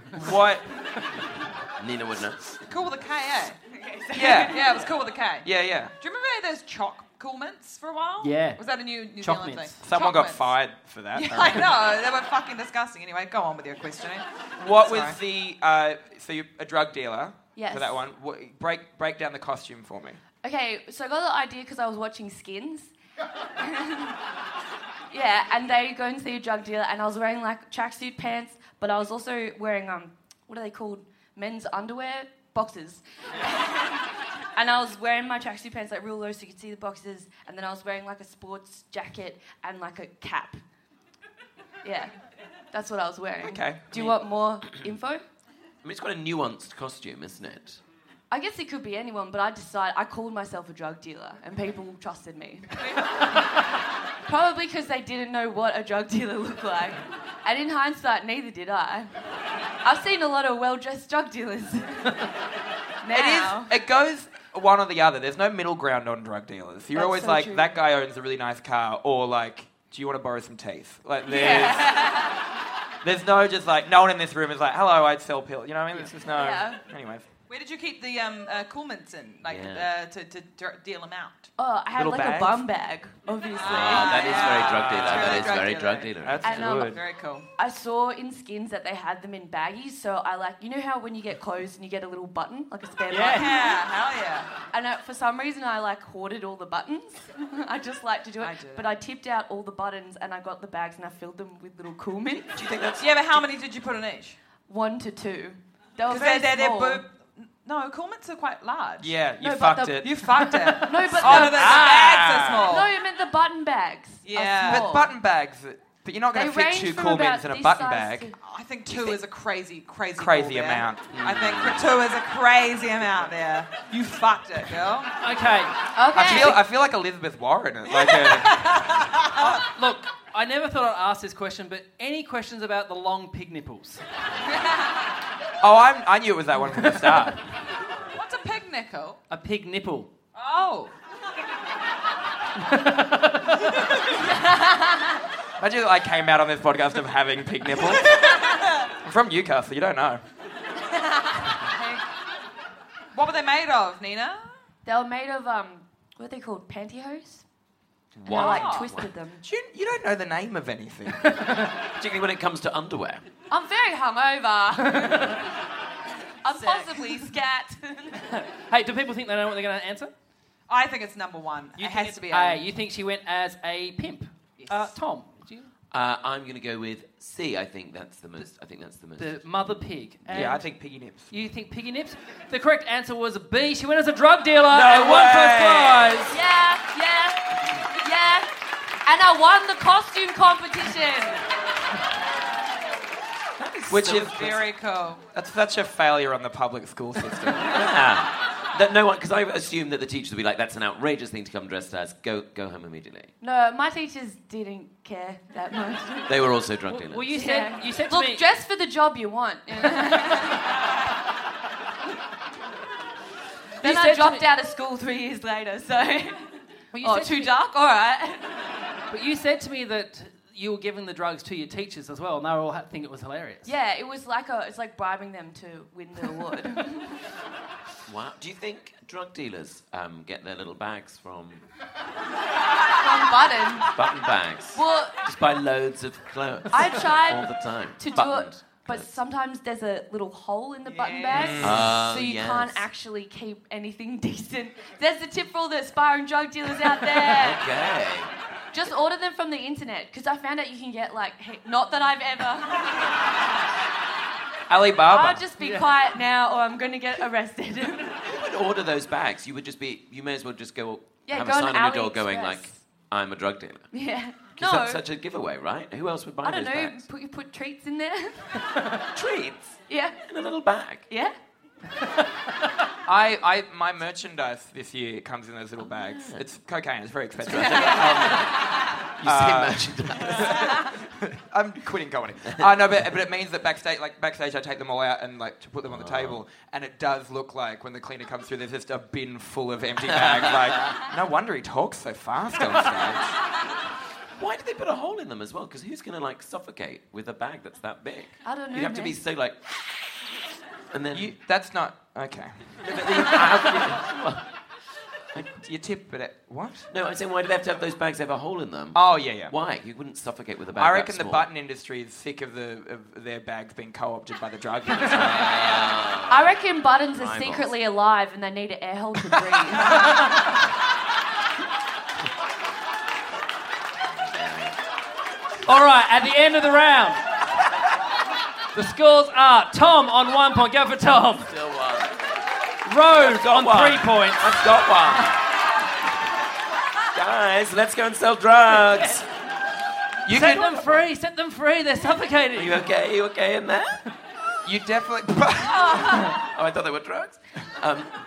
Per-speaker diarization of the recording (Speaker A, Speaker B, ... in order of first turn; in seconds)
Speaker A: 0.1-0.7, 4.1-4.6, 5.4-5.9, 9.8-11.8, 14.6-20.2, 43.4-44.1, 63.1-72.1, 73.0-77.3, 82.0-82.6, 84.7-85.6, 86.2-87.0, 109.0-110.2, 111.2-112.6, 114.7-118.3, 120.2-121.2, 126.1-128.9, 135.6-137.4, 145.6-148.2, 149.0-150.2, 159.4-161.6, 180.3-181.3, 193.9-194.7, 195.3-197.9, 241.3-242.0, 254.7-255.4, 273.1-293.3, 301.1-303.9, 305.4-306.9, 308.9-309.5, 310.8-315.8, 340.3-341.0, 344.6-346.3
Speaker B: 1.8-2.6, 45.8-47.8, 79.5-79.9, 83.7-86.8, 102.5-103.4, 121.1-122.0, 158.2-159.1, 162.0-163.2, 175.9-179.4, 184.7-186.2, 197.6-203.3, 206.3-207.3, 228.1-231.6, 233.9-239.1, 241.6-242.9, 247.2-248.3, 258.2-263.9, 264.6-267.1, 269.2-271.1, 275.8-276.4, 277.4-280.8, 285.9-286.4, 290.1-290.9, 294.4-300.2, 300.9-301.3, 302.8-304.4, 306.9-311.5, 315.0-316.6, 317.1-317.7, 324.0-324.8, 331.5-332.2, 333.2-335.4, 337.1-339.3, 342.6-344.0, 346.3-348.1
Speaker C: 2.7-3.6, 4.4-5.5, 6.0-10.6, 11.1-15.2, 77.5-81.5, 83.5-87.5, 93.3-94.5, 98.4-99.0, 103.0-104.4, 106.1-109.2, 110.0-112.9, 114.2-114.9, 118.4-125.1, 128.0-129.6, 138.1-139.2, 140.3-140.9, 151.7-152.0, 153.1-154.5, 158.3-159.0, 166.5-167.2, 170.7-172.7, 174.6-174.9, 193.7-195.2, 240.8-241.6
Speaker D: 3.7-4.8, 17.6-18.0, 20.4-22.9, 23.6-24.2, 25.1-34.0, 34.5-40.6, 41.8-42.1, 42.7-45.2, 48.3-53.1, 54.3-59.1, 59.8-62.3, 63.0-63.7, 67.0-67.8, 71.2-72.3, 76.2-76.8, 81.6-84.7, 86.4-87.0, 87.6-93.7, 94.7-102.6, 104.7-107.0, 109.4-110.0, 110.8-111.9, 112.6-115.1, 116.3-118.3, 126.0-126.6, 144.2-145.2, 154.8-157.4, 158.3-159.4, 163.5-165.4, 166.4-168.2, 186.3-188.5, 189.1-191.5, 203.4-206.5, 207.3-210.7, 213.8-218.6, 223.7-227.2, 233.0-234.0, 234.8-235.2, 236.7-247.7, 248.7-253.1, 255.1-258.2, 261.3-262.8, 263.9-265.0, 266.4-268.7, 269.9-270.2, 298.4-299.2, 316.3-320.2, 345.8-346.4
Speaker E: 8.2-8.6, 9.2-9.8, 93.1-93.5, 125.2-125.8, 129.7-134.0, 139.3-140.1, 142.6-143.7, 161.4-161.7, 168.3-170.1, 171.8-175.7, 179.2-180.6, 181.3-186.4, 206.9-208.4, 213.8-214.5, 216.9-217.5, 219.1-223.7, 255.6-255.9, 325.7-327.2, 328.7-331.5, 332.9-334.6, 340.3-342.8